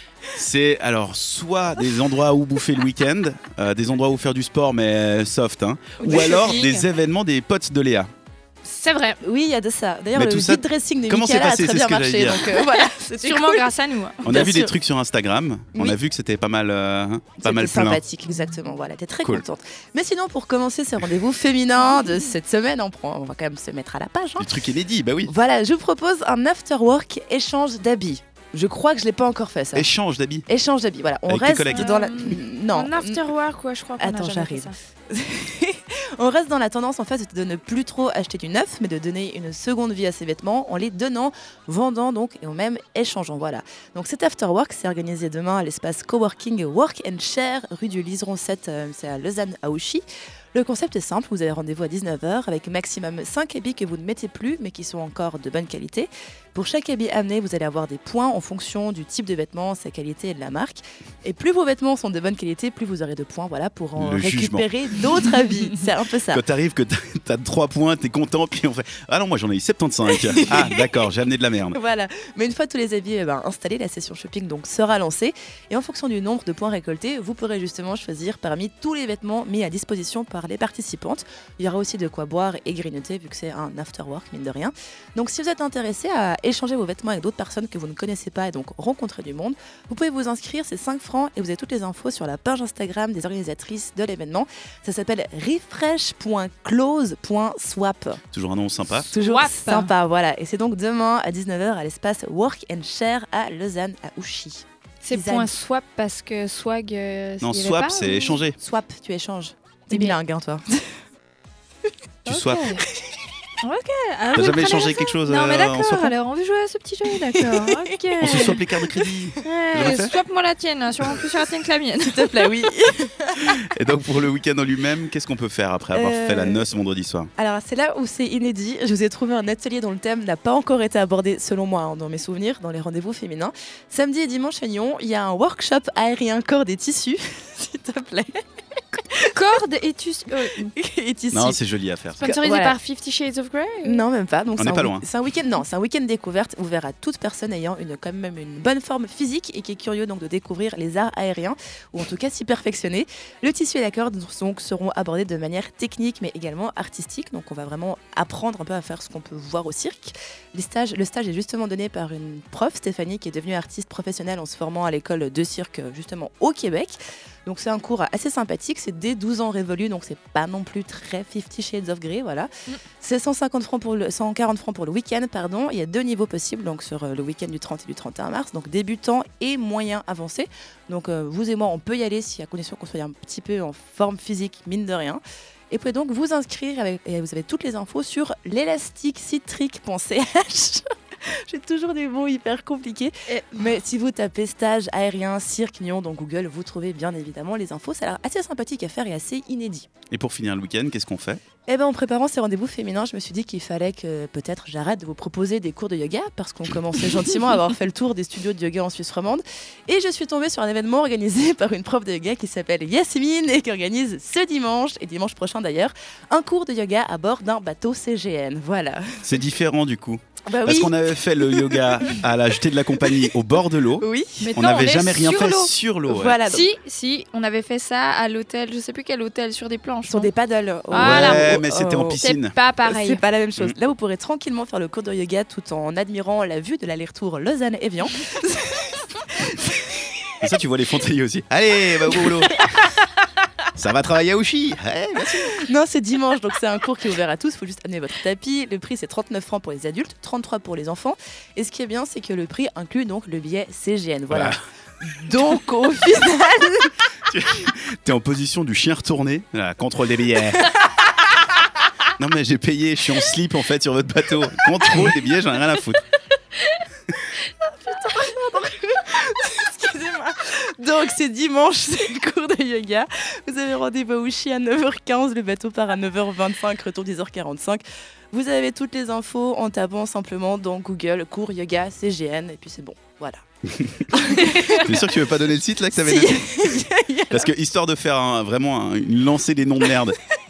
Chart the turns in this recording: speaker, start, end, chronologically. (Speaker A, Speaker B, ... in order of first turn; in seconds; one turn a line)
Speaker A: 0.3-8.1
Speaker B: 6.0-6.8
Speaker B: 8.6-9.2
Speaker C: 9.2-13.7
Speaker A: 10.1-12.5
Speaker B: 12.6-14.2
Speaker A: 14.2-18.0
Speaker C: 14.2-14.7
Speaker C: 17.4-24.5
Speaker A: 24.4-25.3
Speaker C: 25.2-29.9
Speaker A: 29.7-30.4
Speaker C: 30.5-33.2
Speaker A: 31.3-31.9
Speaker B: 31.7-34.8
Speaker C: 34.0-66.4
Speaker A: 64.0-64.7
Speaker A: 66.3-71.8
Speaker C: 70.1-70.8
Speaker C: 71.7-98.2
Speaker A: 98.3-99.1
Speaker B: 99.0-99.9
Speaker C: 99.1-105.5
Speaker B: 105.0-108.4
Speaker A: 107.4-108.6
Speaker C: 108.6-110.8
Speaker B: 109.9-110.2
Speaker A: 112.2-112.8
Speaker B: 112.3-112.8
Speaker B: 113.6-118.6
Speaker A: 114.3-116.1
Speaker C: 117.1-119.1
Speaker A: 118.2-120.1
Speaker B: 119.4-122.7
Speaker C: 122.0-123.6
Speaker A: 123.5-127.3
Speaker C: 125.9-126.6
Speaker C: 127.4-138.4
Speaker C: 138.9-139.3
Speaker B: 139.3-140.7
Speaker C: 140.6-141.6
Speaker A: 141.3-142.2
Speaker B: 142.2-144.0
Speaker C: 142.2-142.8
Speaker C: 143.8-199.9
Speaker A: 144.6-145.0
Speaker B: 193.3-193.7
Speaker A: 200.1-201.4
Speaker C: 201.7-219.3
Speaker A: 219.2-226.4
Speaker C: 220.5-222.2
Speaker C: 223.0-223.3
Speaker C: 224.0-224.5
Speaker B: 224.4-225.7
Speaker C: 226.1-226.7
Speaker B: 226.5-230.3
Speaker C: 230.1-232.2
Speaker B: 230.9-231.6
Speaker A: 231.0-232.5
Speaker B: 232.2-233.2
Speaker C: 232.8-240.3
Speaker A: 240.4-242.6
Speaker C: 242.1-242.6
Speaker A: 243.7-245.6
Speaker C: 245.4-256.9
Speaker A: 254.3-254.6
Speaker A: 257.3-260.6
Speaker C: 260.5-260.9
Speaker A: 262.2-266.0
Speaker C: 267.6-283.4
Speaker C: 284.1-285.1
Speaker B: 284.1-284.8
Speaker A: 284.8-286.8
Speaker C: 285.9-287.5
Speaker A: 287.3-290.2